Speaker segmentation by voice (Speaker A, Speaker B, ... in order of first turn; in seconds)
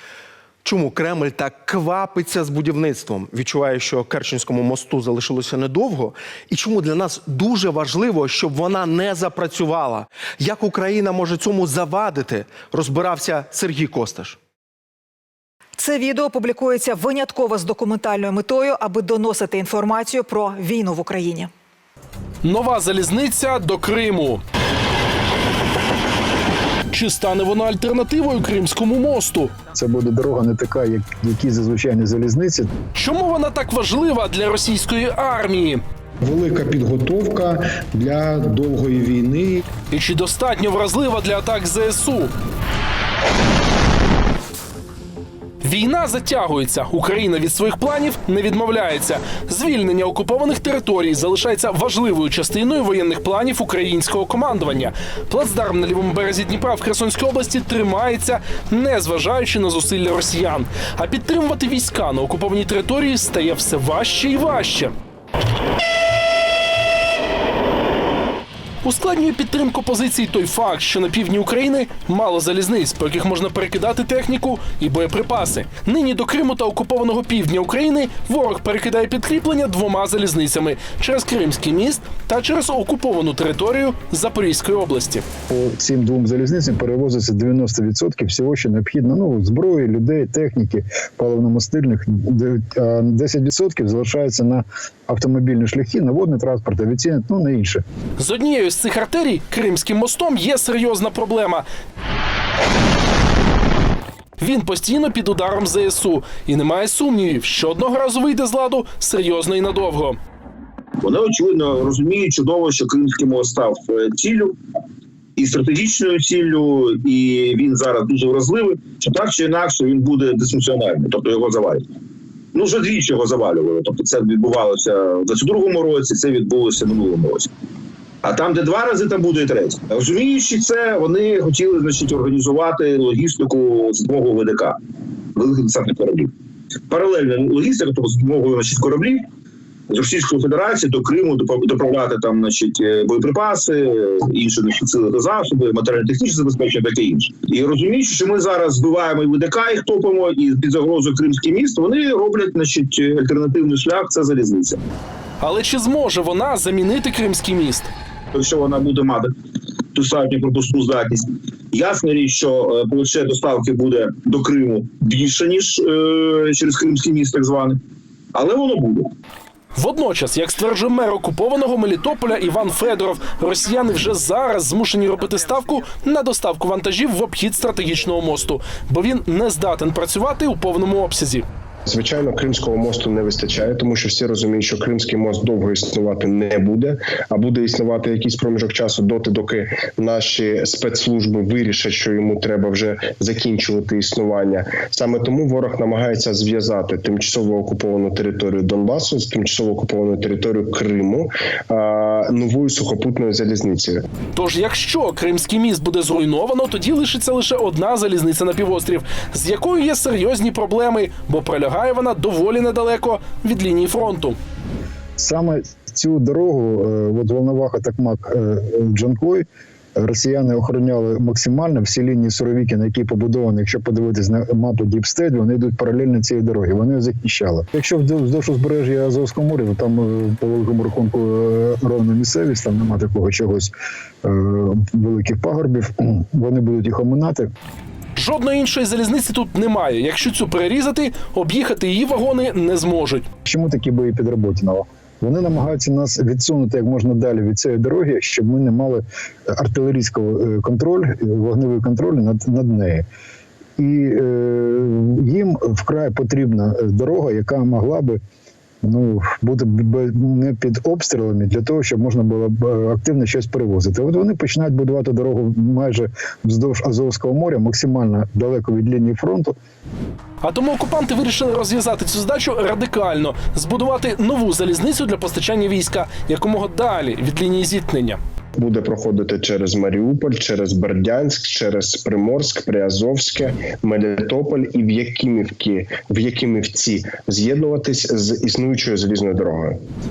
Speaker A: 0.6-14.4
Speaker B: 15.8-21.5
Speaker C: 22.4-24.4, 26.9-29.5, 33.0-35.8, 39.9-42.3, 45.6-64.9, 68.8-85.2, 98.2-101.7, 104.4-110.2, 155.4-157.9, 169.8-181.5, 204.3-214.4, 238.2-243.3, 270.4-278.2
Speaker D: 29.7-32.7, 85.5-97.8, 215.2-219.5, 220.0-233.7, 234.2-237.5, 243.4-249.0, 249.5-253.1, 253.8-258.2, 258.8-269.6
Speaker E: 36.2-39.7
Speaker F: 111.0-114.5, 115.4-121.9, 122.5-127.5, 128.2-134.8, 135.3-136.3, 136.9-139.2, 139.9-154.8, 158.3-159.3, 159.9-167.8, 168.3-169.1
Speaker G: 181.9-204.0, 278.6-289.8